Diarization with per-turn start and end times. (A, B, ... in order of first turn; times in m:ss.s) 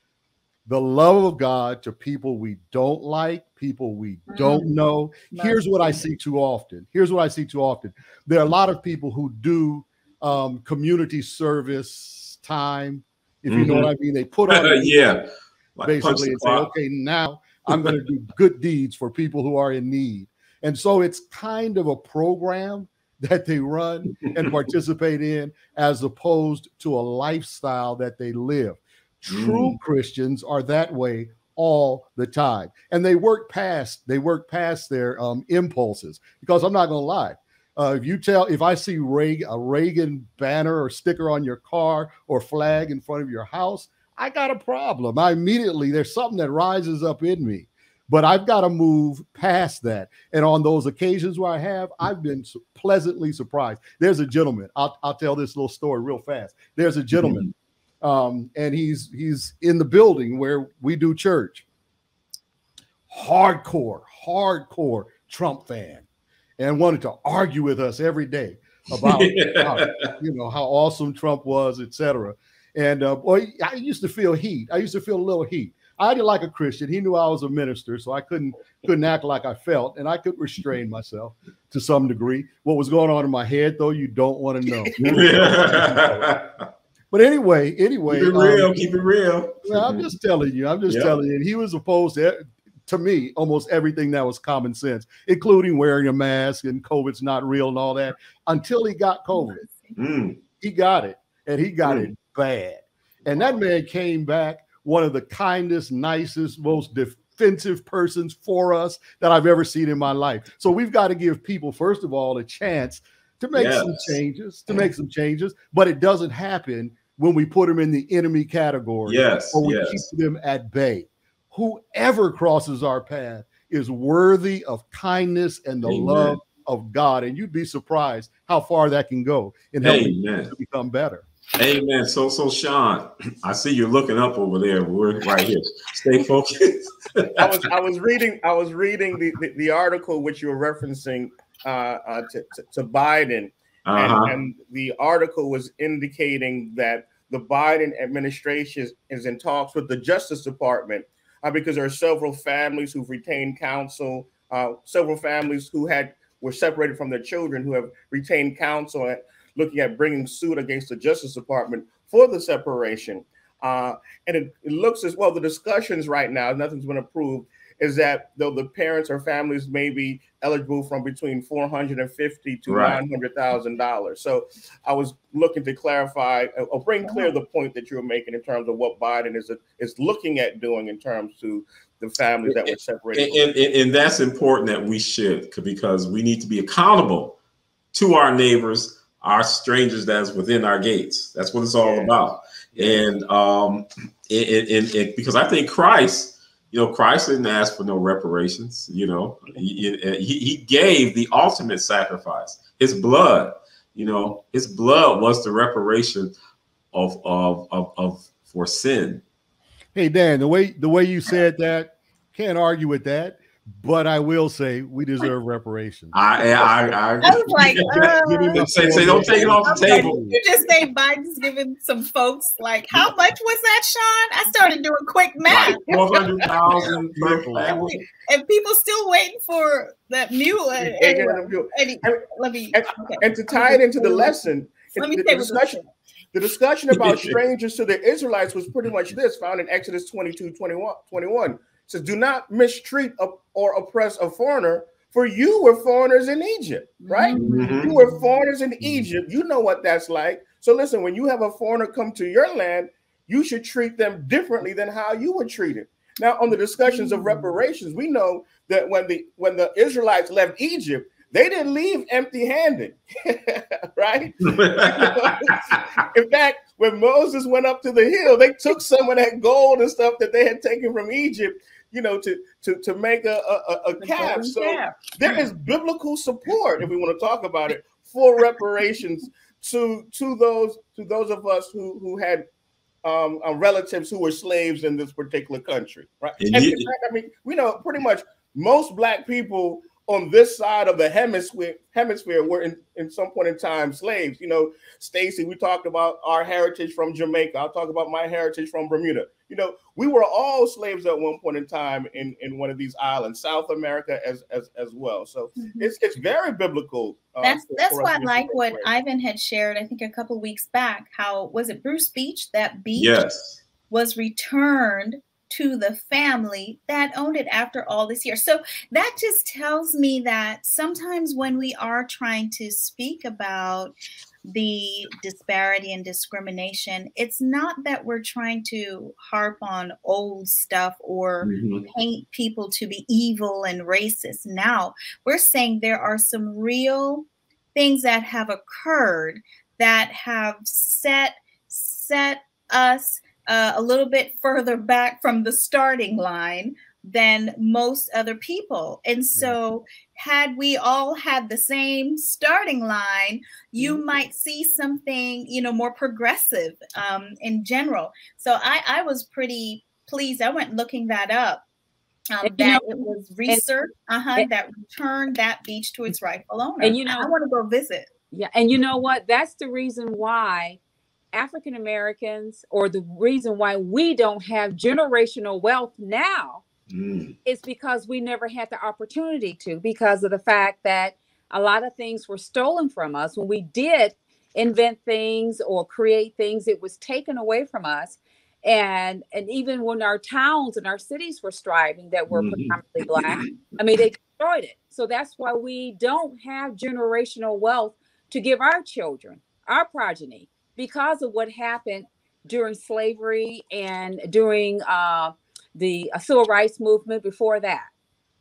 0:00.7-0:15.0 A
0:04.3-0:04.8 B
0:05.3-0:05.7 B
0:13.5-0:13.9 C
0:14.5-0:16.7 C
0:15.8-0:57.5 A
0:29.3-0:29.8 C
0:57.2-0:57.5 C
0:58.0-1:01.6 A
1:03.1-1:06.1 A
1:06.6-1:26.4 A
1:09.0-1:10.1 C
1:25.0-1:26.6 C
1:27.1-1:29.0 A
1:28.1-1:30.1 C
1:29.6-1:39.7 A
1:39.6-1:39.9 B
1:40.0-1:40.4 C
1:40.6-2:11.3 A
1:41.8-1:42.1 C
1:53.5-1:54.2 C
1:59.1-2:00.0 C
2:05.8-2:06.4 C
2:09.8-2:10.5 C
2:11.6-2:17.6 C
2:17.4-3:03.5 D
2:23.9-2:24.3 C
2:52.7-2:53.0 C
3:02.5-3:07.4 C
3:07.9-3:26.4 C
3:11.8-3:12.2 D
3:12.8-3:13.1 D
3:26.9-3:29.2 C
3:30.0-3:36.7 A
3:36.1-3:40.2 C
3:37.2-3:46.9 B
3:37.9-3:40.4 A
3:45.5-3:48.0 C
3:47.2-3:47.7 A
3:47.6-3:54.3 B
3:50.8-3:55.8 D
3:55.0-3:55.9 B
3:56.3-4:42.4 D
3:56.9-3:57.4 C
4:07.0-4:08.0 B
4:07.4-4:08.0 C
4:24.4-4:25.8 C
4:34.0-4:35.1 B
4:43.0-5:08.9 D
4:46.4-4:46.9 C
5:05.6-5:05.9 B
5:07.4-5:13.2 B
5:13.0-5:13.6 C
5:13.9-5:24.0 B
5:24.5-6:01.6 B
5:31.4-5:31.9 C
6:02.3-6:08.1 B
6:02.4-6:03.6 E
6:06.8-6:07.3 E
6:08.3-6:10.8 E
6:11.3-6:16.6 E
6:16.9-6:17.4 C
6:17.4-6:47.9 E
6:32.3-6:33.5 C